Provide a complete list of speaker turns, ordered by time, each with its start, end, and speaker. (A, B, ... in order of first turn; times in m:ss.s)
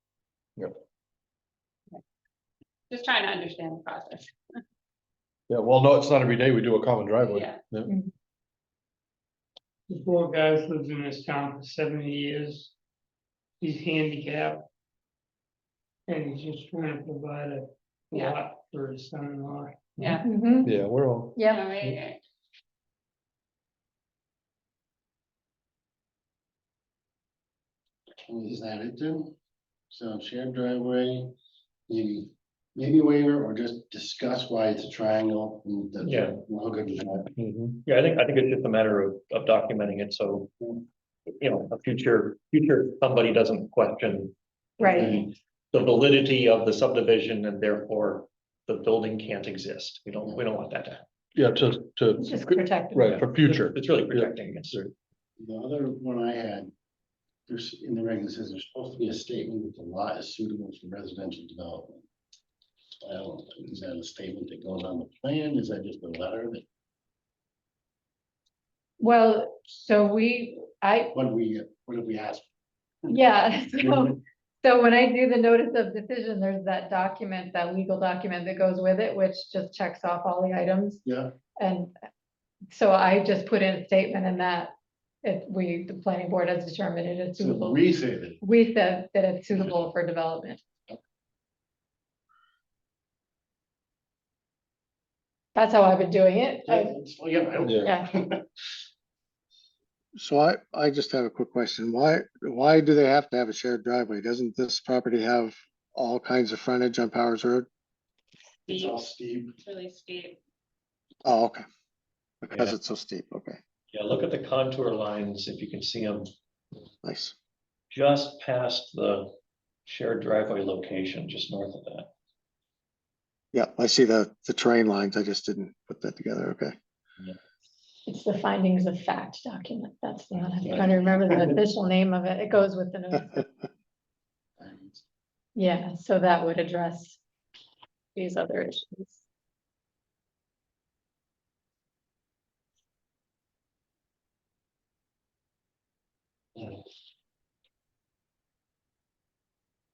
0:02.9-0:04.3 A
0:05.5-0:07.9 B
0:07.2-0:07.6 A
0:09.9-0:12.7 C
0:13.6-0:14.6 C
0:16.1-0:20.2 C
0:18.1-0:18.4 A
0:20.0-0:20.2 A
0:20.2-0:20.7 D
0:20.6-0:22.0 B
0:21.4-0:21.6 D
0:21.5-0:22.2 A
0:28.2-0:29.3 E
0:29.9-0:31.3 E
0:31.9-0:37.3 E
0:36.0-0:36.4 F
0:37.7-0:40.5 F
0:41.3-0:44.3 F
0:44.8-0:45.1 D
0:44.8-0:45.3 E
0:44.9-0:51.0 F
0:51.3-0:54.9 B
0:52.2-0:53.2 D
0:53.0-0:54.8 F
0:55.4-0:56.7 E
0:57.5-1:02.0 E
1:03.0-1:06.6 E
1:09.0-1:11.1 D
1:11.1-1:12.4 E
1:13.1-1:21.0 D
1:13.8-1:14.1 E
1:21.0-1:21.3 E
1:21.6-1:21.9 D
1:22.7-1:24.7 D
1:25.2-1:27.8 D
1:27.4-1:28.4 E
1:28.4-1:30.6 D
1:29.5-1:29.9 E
1:35.5-1:36.9 D
1:36.6-1:38.4 E
1:37.6-1:37.9 B
1:40.2-1:47.7 G
1:48.7-1:49.0 A
1:48.7-1:49.5 E
1:49.6-1:50.4 A
1:51.2-1:51.6 G
1:52.4-1:53.6 G
1:53.9-1:56.3 F
1:57.0-1:57.3 G
1:57.9-2:02.1 F
2:03.5-2:06.7 G
2:08.0-2:13.4 D
2:10.6-2:11.6 E
2:14.6-2:15.0 E
2:15.6-2:17.2 D
2:18.2-2:19.2 D